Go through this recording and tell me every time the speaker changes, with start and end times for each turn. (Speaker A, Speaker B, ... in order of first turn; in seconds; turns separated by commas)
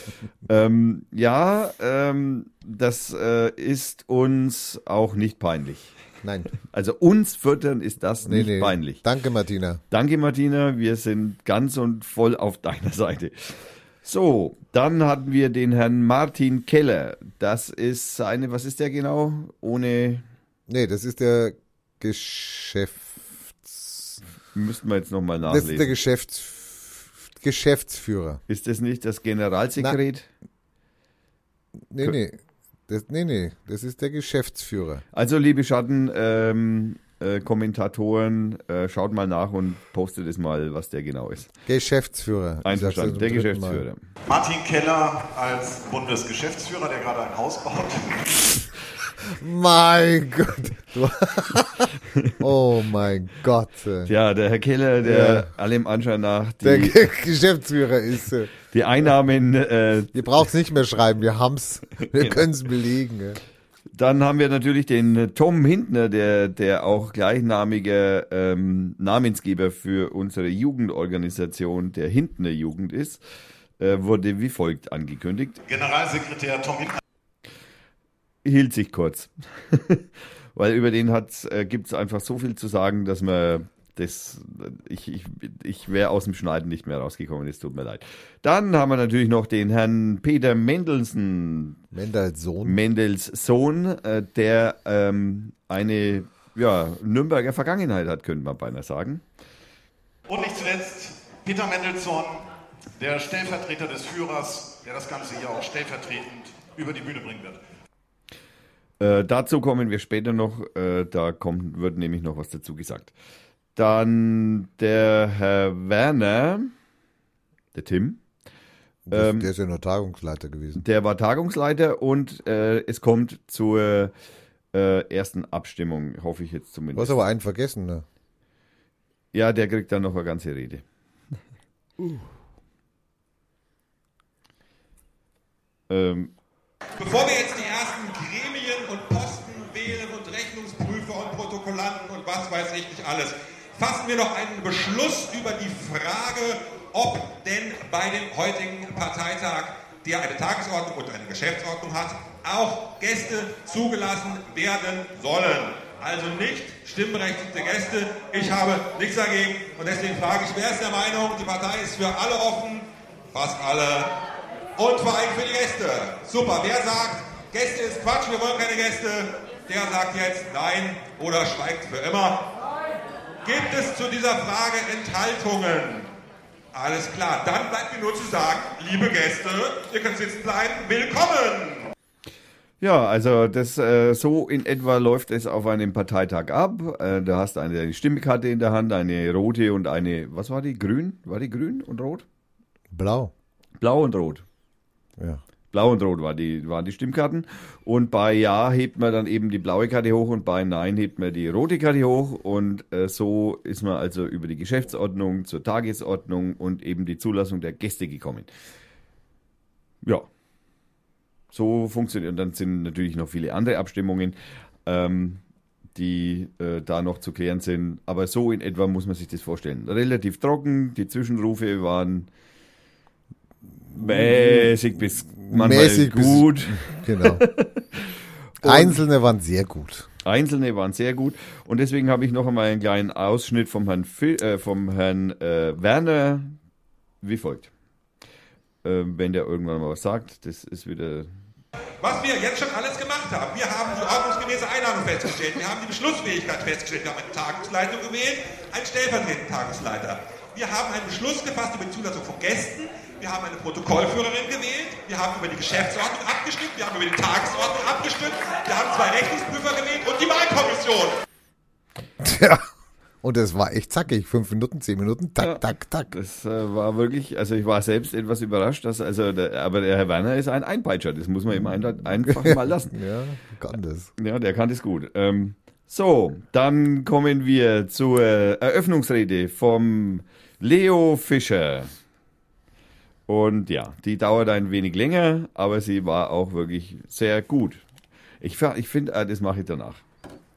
Speaker A: 0.5-6.0, Speaker B: 6.2-6.5, Speaker A: 6.7-9.0, Speaker B: 8.2-9.8, Speaker A: 9.9-20.2, Speaker B: 20.7-24.2, Speaker A: 24.5-25.9, Speaker B: 25.5-28.4, Speaker A: 28.5-30.3, Speaker B: 31.9-35.0, Speaker A: 35.1-41.5, Speaker B: 41.7-43.9, Speaker A: 42.6-44.0, Speaker C: 44.3-48.6, Speaker B: 49.3-54.1, Speaker A: 54.1-57.0, Speaker B: 55.0-55.5, Speaker B: 56.6-58.5, Speaker A: 58.7-60.2, Speaker B: 60.1-63.4, Speaker A: 62.2-62.4, Speaker A: 63.9-73.2, Speaker A: 73.8-75.6, Speaker C: 75.7-77.0, Speaker A: 78.4-91.8, Speaker B: 91.9-92.8, Speaker A: 92.6-99.2, Speaker C: 100.3-102.5, Speaker C: 103.0-107.6, Speaker A: 109.0-113.1, Speaker A: 113.8-116.7, Speaker A: 117.7-118.2, Speaker B: 119.1-120.8, Speaker A: 119.1-119.5, Speaker A: 120.8-124.1, Speaker A: 124.7-127.2, Speaker B: 127.0-128.1, Speaker A: 129.3-130.8, Speaker B: 132.0-132.2, Speaker A: 135.9-136.3, Speaker D: 137.0-164.1, Speaker D: 164.8-172.5, Speaker D: 173.4-176.1, Speaker D: 176.7-181.9, Speaker A: 182.8-192.2, Speaker B: 192.9-193.3, Speaker A: 193.8-194.4, Speaker A: 195.7-208.5, Speaker A: 211.5-215.4, Speaker A: 215.9-222.3, Speaker B: 223.9-224.7, Speaker A: 224.0-229.0, Speaker B: 225.4-227.4, Speaker B: 228.6-230.1, Speaker A: 230.2-236.6, Speaker A: 237.2-237.7, Speaker A: 238.8-241.3, Speaker D: 242.0-261.2, Speaker B: 262.2-262.6, Speaker B: 263.2-266.1, Speaker A: 265.4-272.9, Speaker B: 272.2-274.1, Speaker A: 274.2-281.9, Speaker A: 283.3-287.8, Speaker A: 288.4-290.0